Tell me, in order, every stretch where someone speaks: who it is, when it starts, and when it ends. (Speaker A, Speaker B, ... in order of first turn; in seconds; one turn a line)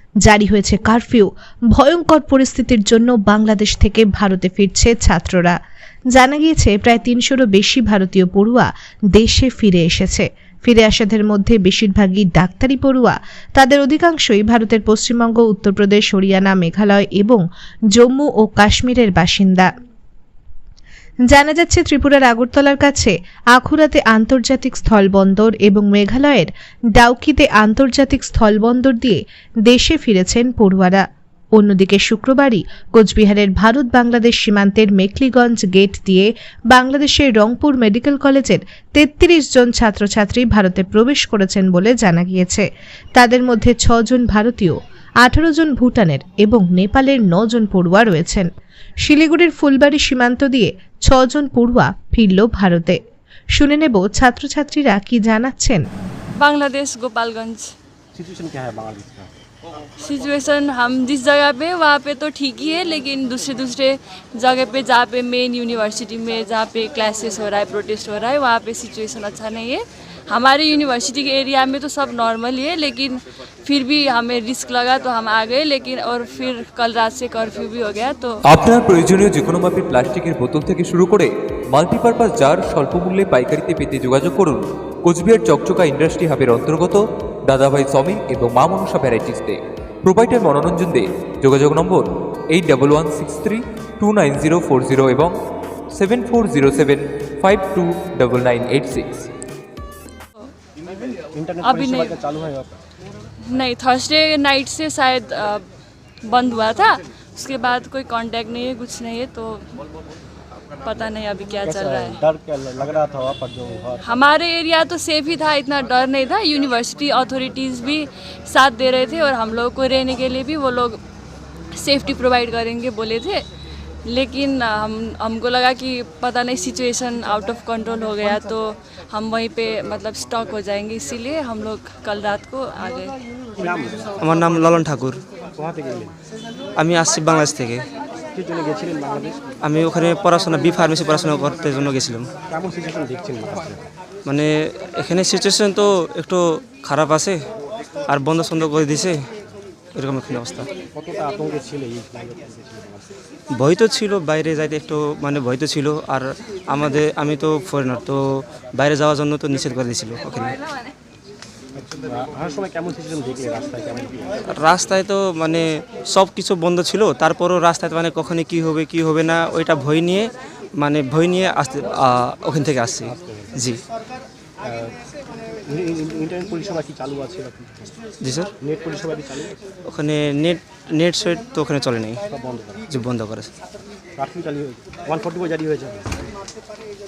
Speaker A: 0.2-5.6
Speaker A: 6.1-17.4
Speaker A: 17.9-19.7
Speaker A: 21.3-31.0
Speaker A: 31.6-42.7
Speaker A: 43.2-48.5
Speaker A: 49.0-53.0
Speaker A: 53.6-55.8
Speaker B: 56.4-57.7
Speaker C: 58.1-59.3
Speaker B: 60.0-78.4
Speaker D: 78.5-95.3
Speaker D: 95.9-99.3
Speaker C: 101.3-102.8
Speaker B: 101.6-102.2
Speaker B: 103.5-105.7
Speaker B: 106.2-109.7
Speaker B: 110.8-112.2
Speaker C: 111.6-114.0
Speaker B: 114.0-121.0
Speaker B: 121.8-123.5
Speaker B: 124.1-133.2
Speaker C: 133.6-134.2
Speaker E: 134.2-135.2
Speaker C: 135.6-136.2
Speaker E: 136.8-137.9
Speaker C: 138.3-139.4
Speaker E: 139.6-142.3
Speaker C: 142.5-143.9
Speaker E: 144.3-147.4
Speaker E: 148.1-149.3
Speaker E: 149.9-150.7
Speaker C: 150.9-153.2
Speaker E: 153.5-160.6
Speaker C: 161.8-164.4
Speaker E: 164.5-173.8
Speaker C: 173.1-173.5
Speaker C: 174.6-175.0
Speaker C: 175.7-177.9
Speaker E: 178.2-178.5
Speaker C: 178.6-179.6
Speaker E: 179.9-182.2
Speaker C: 182.3-182.9
Speaker E: 182.9-183.5
Speaker C: 184.2-186.1